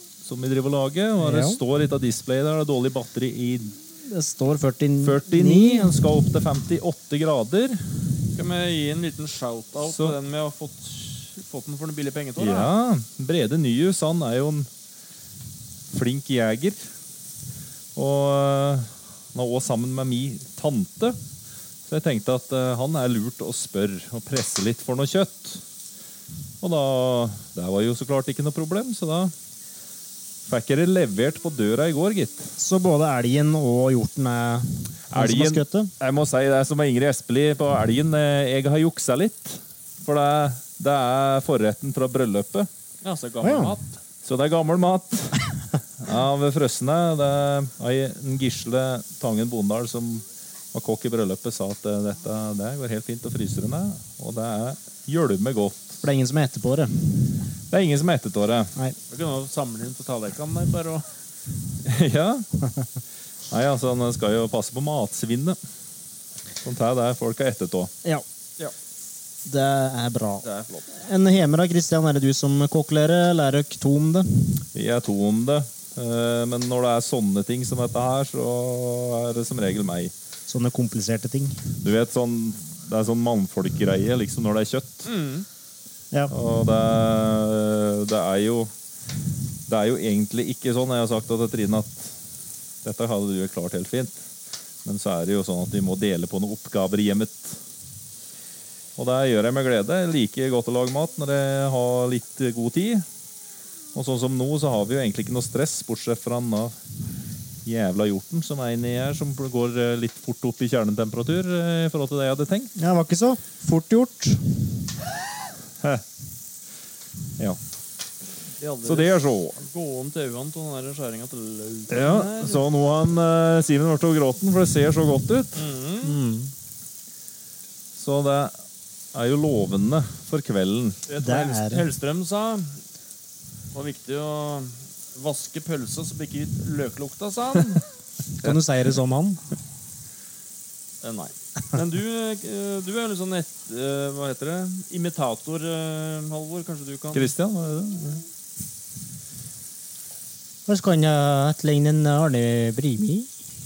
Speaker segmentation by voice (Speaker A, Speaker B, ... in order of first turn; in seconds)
Speaker A: 0.2-3.8, 5.0-7.8, 9.8-10.2, 12.4-14.7, 15.9-16.8, 17.9-21.2, 21.9-25.6, 26.6-29.3, 30.4-32.5, 35.1-42.7, 44.2-56.0, 57.7-58.7, 61.8-62.5, 63.5-65.6, 66.6-67.9, 74.7-80.1, 81.8-85.1, 86.3-88.7, 89.7-92.1, 92.8-94.2, 94.8-97.6, 99.0-103.0, 103.9-106.8, 107.6-112.7, 118.8-119.6, 121.9-125.6, 128.0-128.5, 129.1-131.0, 147.1-148.2
Speaker B: 1.2-1.6, 4.0-6.0, 32.6-35.9, 43.4-43.7, 56.0-57.2, 69.4-74.6, 80.5-81.6, 112.8-114.5, 126.0-126.5, 131.2-131.8, 138.3-139.4, 150.7-153.3
Speaker C: 8.3-12.7, 43.0-44.0, 59.1-61.0, 70.4-70.8, 85.0-85.5, 118.6-122.6, 125.5-126.2, 131.1-132.8, 133.7-137.8, 141.0-147.3